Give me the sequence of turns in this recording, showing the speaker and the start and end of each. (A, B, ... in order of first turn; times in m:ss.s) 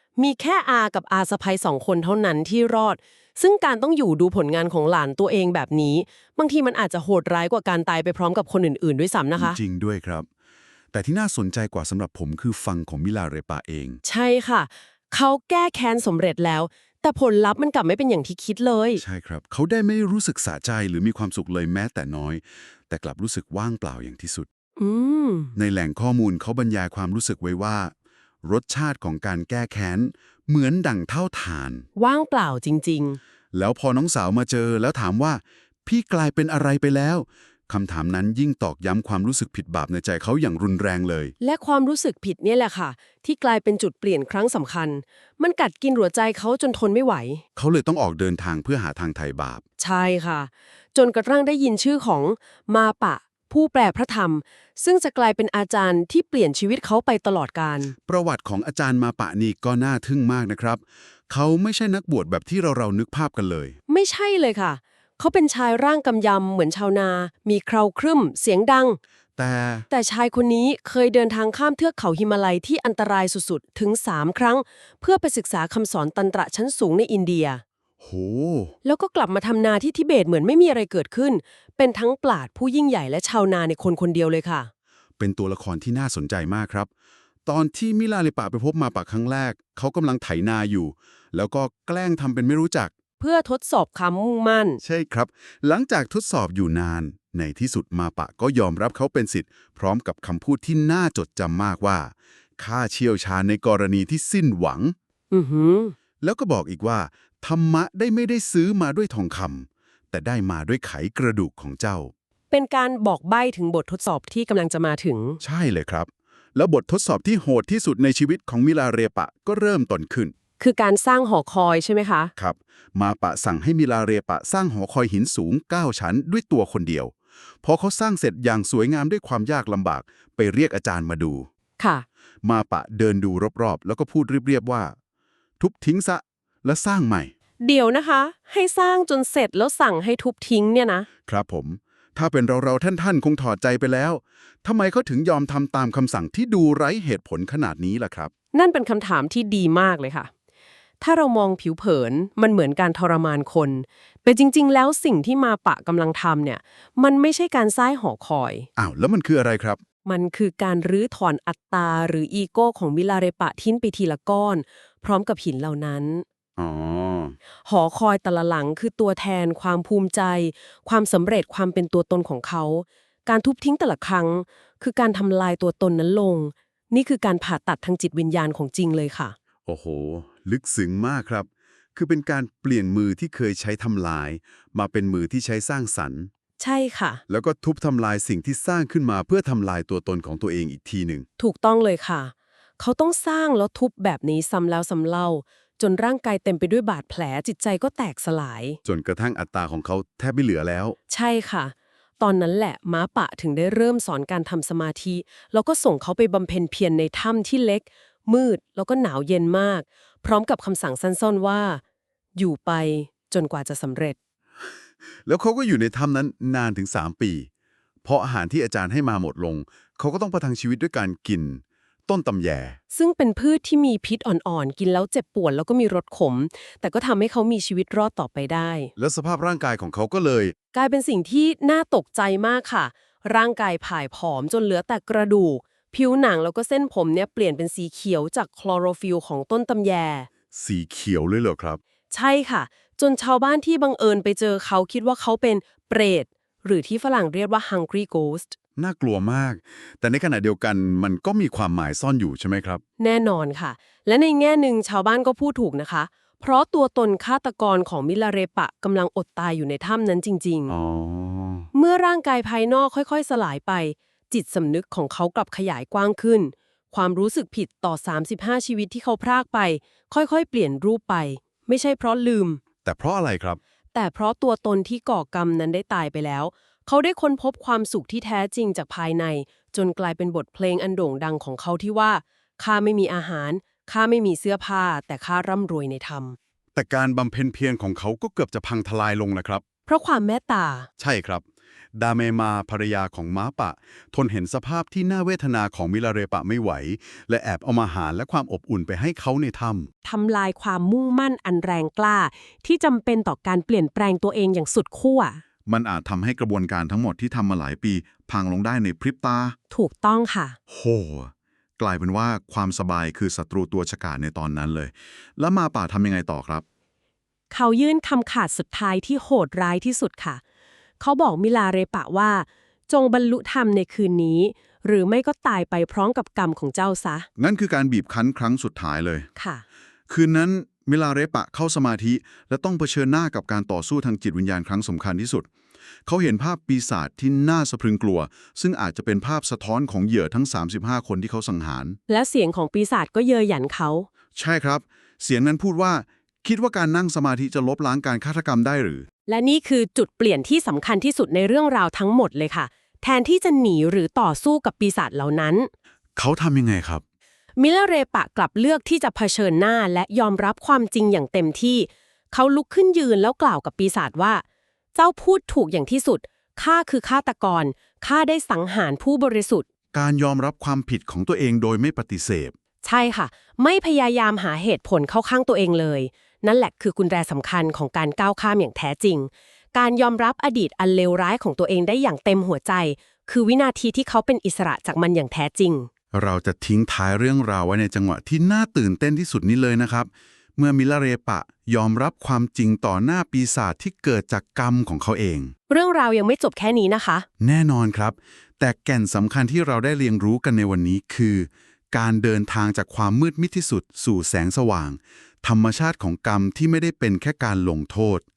0:00.2-0:09.6 A
0:09.3-0:10.2 B
0:10.9-0:14.0 B
0:14.0-0:19.0 A
0:19.0-0:24.5 B
0:24.8-0:25.5 A
0:25.5-0:31.8 B
0:32.0-0:33.2 A
0:33.5-0:41.3 B
0:41.4-0:47.4 A
0:47.6-0:49.6 B
0:49.8-0:57.9 A
0:58.0-1:03.8 B
1:03.9-1:09.0 A
1:09.4-1:09.8 B
1:09.9-1:17.6 A
1:18.0-1:18.7 B
1:18.8-1:24.7 A
1:25.2-1:26.9 B
1:27.4-1:32.9 B
1:33.2-1:34.8 A
1:34.8-1:44.9 B
1:45.3-1:45.9 A
1:46.2-1:52.1 B
1:52.5-1:55.4 A
1:55.4-2:00.3 B
2:00.6-2:02.3 A
2:02.4-2:11.5 B
2:11.8-2:12.0 A
2:12.4-2:14.9 B
2:15.6-2:17.3 B
2:17.6-2:21.1 A
2:21.3-2:28.3 B
2:28.5-2:30.3 A
2:31.0-2:38.7 A
2:38.8-2:39.8 B
2:40.0-2:46.2 A
2:46.6-2:47.4 B
2:47.6-2:59.3 A
2:59.7-3:06.3 B
3:06.6-3:07.2 A
3:07.3-3:11.2 B
3:11.4-3:18.8 A
3:18.8-3:21.0 B
3:21.1-3:31.8 A
3:32.3-3:34.2 A
3:35.2-3:37.5 B
3:38.0-3:42.8 B
3:42.9-3:48.9 A
3:49.0-3:50.5 B
3:50.7-4:00.3 A
4:00.5-4:01.8 B
4:02.1-4:08.5 A
4:08.8-4:12.8 B
4:13.0-4:20.7 A
4:20.7-4:21.7 B
4:21.7-4:32.6 A
4:32.8-4:33.6 B
4:33.9-4:46.4 A
4:46.8-4:49.6 B
4:49.9-4:50.9 A
4:51.0-4:51.4 B
4:51.9-4:59.9 B
5:00.0-5:05.4 A
5:05.6-5:09.6 B
5:09.7-5:10.6 A
5:10.7-5:16.6 B
5:17.5-5:20.4 A
5:21.0-5:27.3 A
5:27.4-5:29.3 B
5:29.4-5:29.6 A
5:30.1-5:35.5 B
5:36.0-5:42.0 B
5:42.1-5:44.1 A
5:44.3-5:49.1 B
5:49.3-5:55.7 A
5:56.2-5:57.0 B
5:57.6-6:04.4 A
6:04.9-6:09.6 A
6:09.9-6:12.5 B
6:12.8-6:25.9 A
6:26.1-6:35.5 B
6:35.7-6:37.3 A
6:37.4-6:48.2 B